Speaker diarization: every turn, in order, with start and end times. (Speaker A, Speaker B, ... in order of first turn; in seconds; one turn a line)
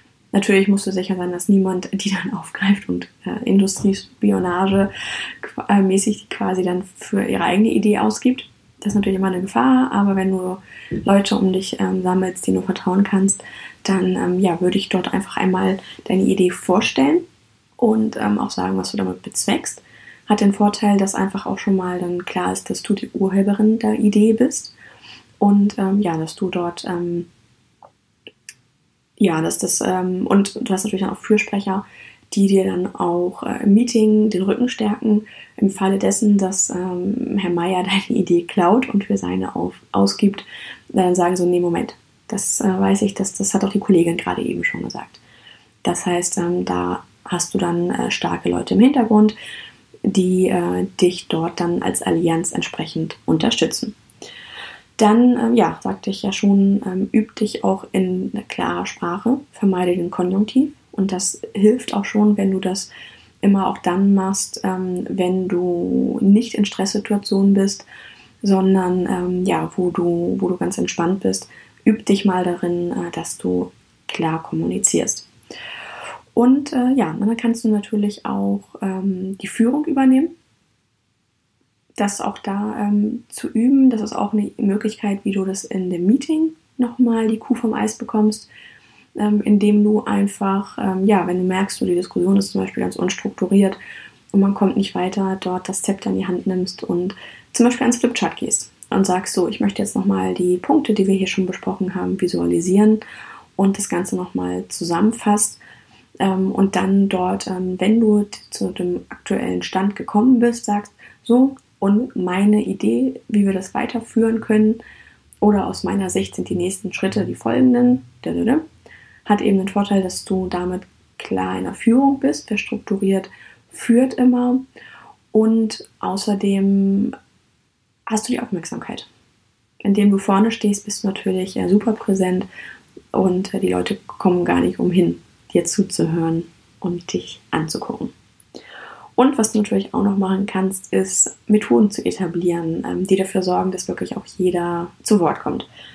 Speaker A: 0.3-17.2
Speaker A: 17.8-24.7
Speaker A: 25.4-27.3
Speaker A: 29.2-45.2
Speaker A: 45.8-49.4
Speaker A: 50.0-54.0
Speaker A: 55.0-62.9
Speaker A: 63.4-67.8
Speaker A: 68.4-75.3
Speaker A: 76.3-80.3
Speaker A: 82.0-88.5
Speaker A: 89.2-93.8
Speaker A: 94.3-103.0
Speaker A: 103.6-105.6
Speaker A: 106.2-114.8
Speaker A: 115.4-118.6
Speaker A: 119.2-124.6
Speaker A: 125.3-127.1
Speaker A: 128.1-129.1
Speaker A: 129.8-132.5
Speaker A: 133.1-138.1
Speaker A: 139.2-145.7